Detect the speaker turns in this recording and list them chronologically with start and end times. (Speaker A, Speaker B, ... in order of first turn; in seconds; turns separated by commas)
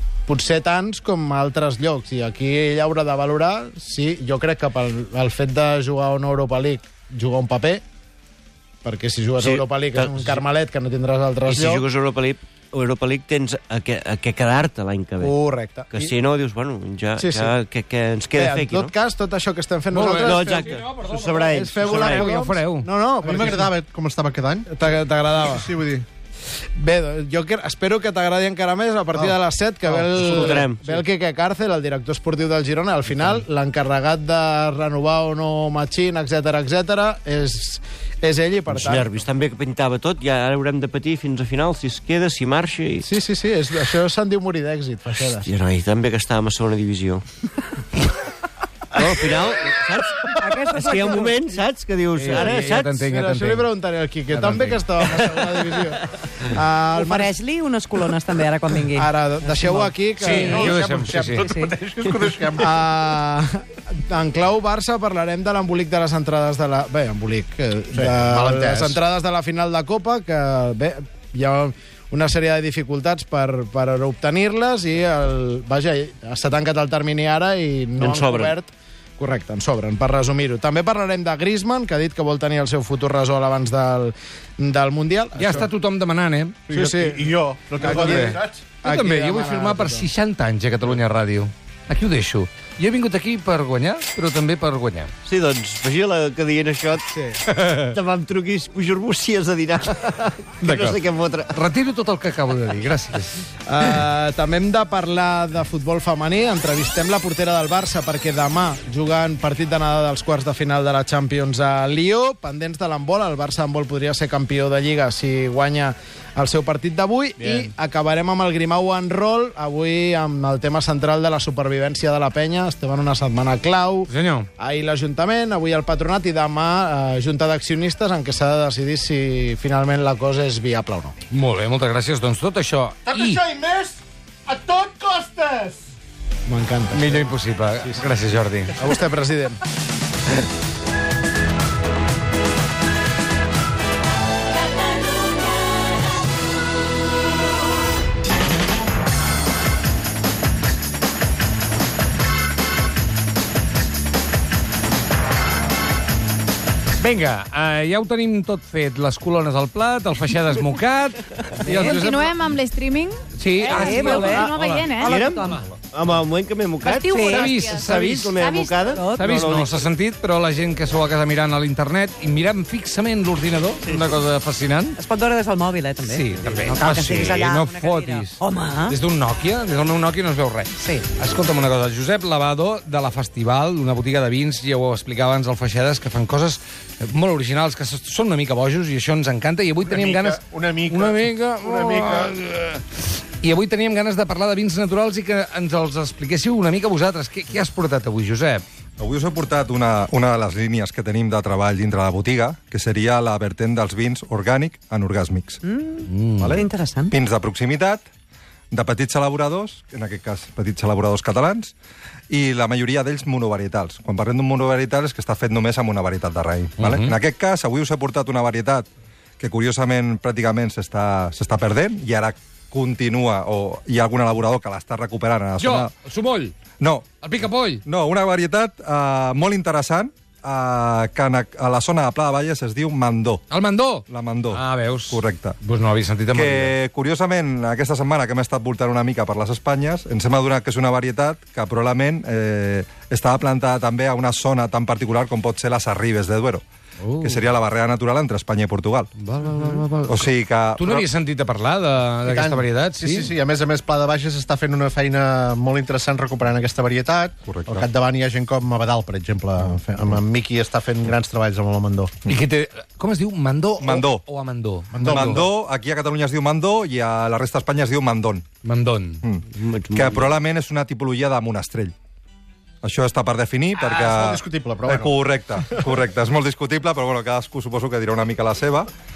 Speaker A: 0.3-7.8, Speaker A: 8.8-11.8, Speaker B: 9.4-10.4, Speaker B: 11.5-15.3, Speaker A: 15.2-16.1, Speaker B: 15.9-18.9, Speaker A: 17.2-17.5, Speaker A: 18.4-20.7, Speaker C: 19.9-22.9, Speaker B: 20.0-22.4, Speaker A: 21.5-23.7, Speaker D: 23.2-24.7, Speaker A: 24.7-25.7, Speaker D: 25.4-26.1, Speaker A: 26.8-39.1, Speaker D: 29.9-30.6, Speaker B: 30.0-31.0, Speaker B: 38.7-43.1, Speaker A: 43.0-45.5, Speaker B: 45.4-47.3, Speaker B: 49.0-53.0, Speaker E: 50.3-51.5, Speaker C: 52.2-53.7, Speaker A: 53.0-57.4, Speaker C: 54.3-54.9, Speaker E: 57.0-60.7, Speaker A: 58.9-60.8, Speaker C: 60.2-61.6, Speaker D: 60.2-63.0, Speaker E: 61.4-61.7, Speaker A: 62.6-85.7, Speaker D: 67.9-69.0, Speaker B: 78.0-78.5, Speaker C: 85.3-86.6, Speaker D: 86.7-88.7, Speaker A: 86.7-90.1, Speaker C: 87.8-95.1, Speaker B: 95.2-101.6, Speaker A: 97.1-97.4, Speaker C: 100.6-101.0, Speaker C: 101.5-103.5, Speaker A: 103.7-131.2, Speaker D: 117.4-117.7, Speaker C: 124.1-124.5, Speaker C: 131.3-133.4, Speaker D: 133.1-135.9, Speaker A: 136.5-137.3, Speaker C: 136.9-138.8, Speaker A: 138.8-139.6, Speaker C: 157.0-162.5, Speaker E: 161.6-162.0, Speaker F: 161.8-163.8, Speaker C: 163.4-164.9, Speaker E: 163.7-165.7, Speaker F: 164.4-165.1, Speaker B: 165.0-169.9, Speaker F: 166.8-169.0, Speaker E: 167.1-167.5, Speaker C: 167.2-168.3, Speaker E: 168.8-169.4, Speaker C: 169.0-175.0, Speaker E: 175.0-179.0, Speaker C: 176.0-198.6, Speaker E: 180.8-181.1, Speaker D: 189.8-192.4, Speaker G: 199.0-205.6, Speaker E: 205.7-207.1, Speaker C: 206.0-206.6, Speaker G: 206.4-208.1, Speaker G: 208.7-211.7, Speaker G: 212.3-218.9, Speaker C: 216.8-217.2, Speaker G: 219.4-225.9, Speaker C: 225.6-226.5, Speaker G: 226.8-227.1, Speaker C: 227.2-227.8, Speaker G: 227.8-233.4, Speaker C: 233.5-236.8, Speaker G: 234.1-235.6, Speaker G: 236.3-246.6, Speaker C: 247.0-247.4, Speaker G: 247.2-249.1, Speaker C: 249.2-253.3, Speaker G: 250.1-251.1, Speaker D: 252.2-262.1, Speaker G: 257.5-257.8, Speaker C: 262.3-265.4, Speaker G: 263.8-264.2, Speaker D: 264.9-265.5, Speaker G: 265.0-268.4, Speaker C: 268.6-269.2, Speaker G: 269.2-271.9, Speaker B: 269.5-270.3, Speaker G: 272.8-278.9, Speaker D: 273.8-275.9